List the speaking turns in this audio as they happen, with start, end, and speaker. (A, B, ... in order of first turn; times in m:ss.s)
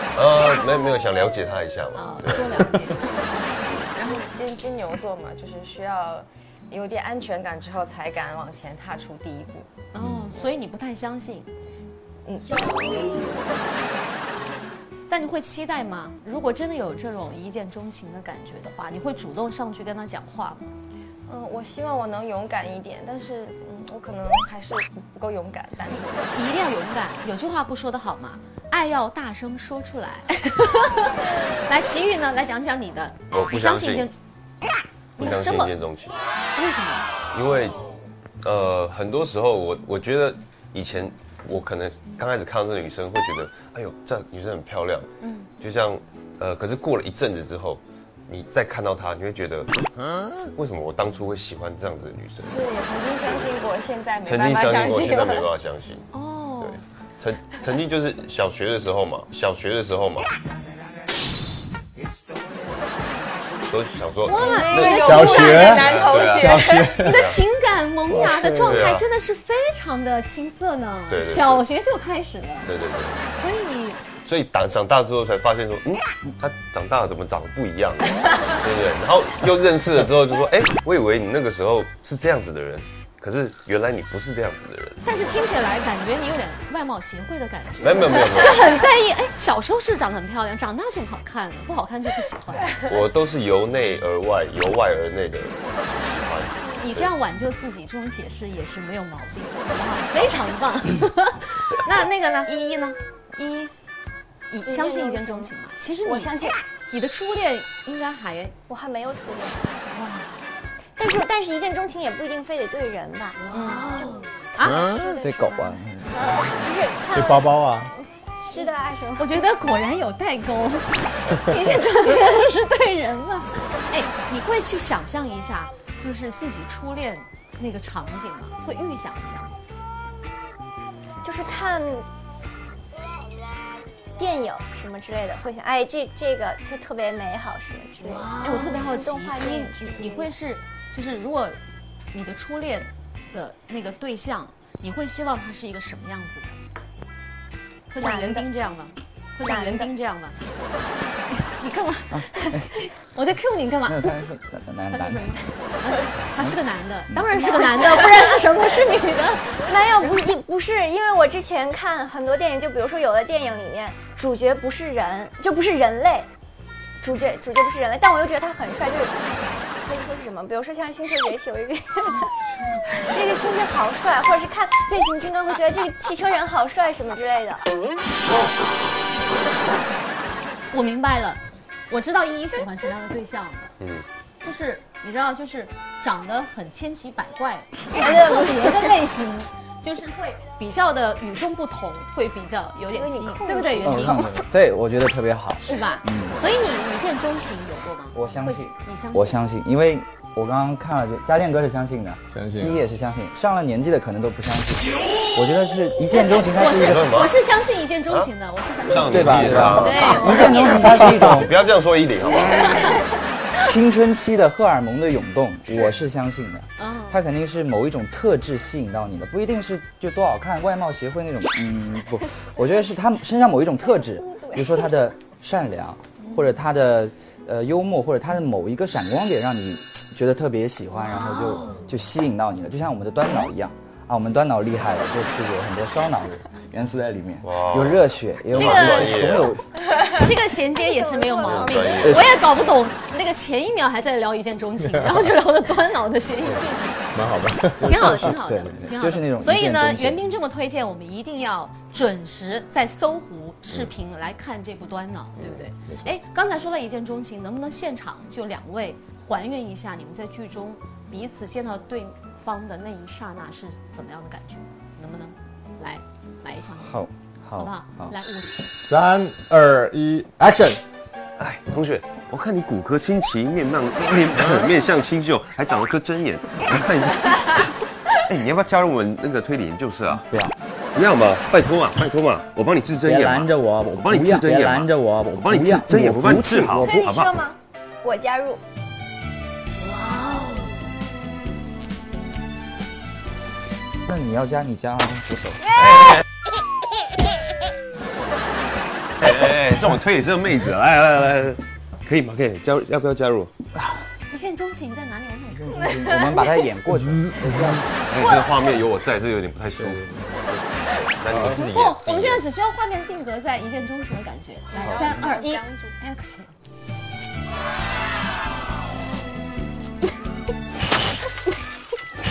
0:00.1-0:02.7 A
0:01.9-0:03.4 B
0:03.6-0:03.9 A
0:03.9-0:04.2 B
0:04.0-0:09.7 C
0:09.9-0:11.5 B
0:10.0-0:10.3 D
0:12.2-0:13.3 C
0:15.1-0:20.7 B
0:21.3-0:26.5 C
0:25.9-0:34.1 B
0:33.3-0:34.1 A
0:35.2-0:35.7 B
0:35.2-0:36.2 A
0:36.6-0:37.1 B
0:37.3-0:37.8 A
0:38.4-0:49.7 A
0:45.2-0:45.5 B
0:50.4-0:52.6 A
0:52.5-0:55.5 C
0:54.2-1:00.3 A
0:56.1-0:56.8 B
1:03.7-1:07.4 A
1:04.2-1:05.9 B
1:04.3-1:07.0 C
1:04.9-1:07.3 D
1:07.0-1:12.7 B
1:08.1-1:08.8 D
1:08.6-1:09.0 A
1:11.1-1:11.6 A
1:12.6-1:13.2 A
1:13.3-1:14.0 B
1:14.2-1:25.0 A
1:25.0-1:32.7 B
1:27.8-1:28.8 A
1:32.8-1:37.1 A
1:36.8-1:43.7 B
1:44.5-1:46.3 B
1:44.6-1:45.5 E
1:46.0-1:46.6 E
1:46.9-1:48.5 B
1:48.7-1:49.6 E
1:49.9-1:50.4 B
1:51.0-1:57.7 E
1:53.5-1:54.0 B
1:54.6-1:55.2 B
1:55.2-1:56.1 F
1:57.1-1:57.9 D
1:58.4-1:59.4 E
1:59.2-2:09.5 B
2:11.2-2:12.1 E
2:14.2-2:20.3 E
2:18.4-2:21.6 B
2:22.1-2:26.5 B
2:27.9-2:30.4 B
2:28.0-2:28.5 E
2:29.4-2:29.9 E
2:31.3-2:34.2 B
2:32.1-2:32.7 F
2:33.8-2:35.4 F
2:34.9-2:40.2 B
2:37.4-2:38.6 E
2:39.6-2:46.3 E
2:47.0-2:49.2 E
2:49.8-2:52.3 E
2:52.9-2:57.6 E
3:00.7-3:03.7 B
3:03.8-3:04.0 A
3:04.4-3:14.4 B
3:07.9-3:08.9 E
3:12.9-3:14.4 E
3:13.8-3:16.4 F
3:15.6-3:19.4 B
3:18.1-3:27.1 F
3:22.3-3:22.8 D
3:26.1-3:31.2 B
3:26.6-3:27.4 A
3:28.9-3:33.0 A
3:29.1-3:31.5 F
3:29.4-3:29.7 D
3:32.5-3:32.9 B
3:33.6-3:59.6 F
3:36.8-3:37.2 B
3:43.8-3:45.0 E
3:57.4-3:59.5 A
3:58.5-3:59.4 B
4:00.1-4:07.1 B
4:00.7-4:02.3 E
4:01.4-4:02.4 A
4:04.9-4:05.2 D
4:07.1-4:08.2 D
4:07.8-4:10.2 F
4:07.8-4:28.7 B
4:15.9-4:16.1 D
4:26.8-4:28.1 F
4:28.8-4:30.8 D
4:31.4-4:40.2 A
4:40.1-4:40.5 F
4:40.9-4:47.4 A
4:43.0-4:47.1 F
4:46.8-4:48.6 E
4:54.1-4:55.7 F
4:59.2-5:03.5 A
5:04.3-5:06.5 B
5:05.5-5:07.9 F
5:07.0-5:07.8 D
5:08.1-5:10.2 A
5:08.2-5:08.8 B
5:09.8-5:10.1 F
5:11.2-5:12.4 A
5:11.5-5:16.5 B
5:14.7-5:16.0 C
5:14.8-5:15.2 F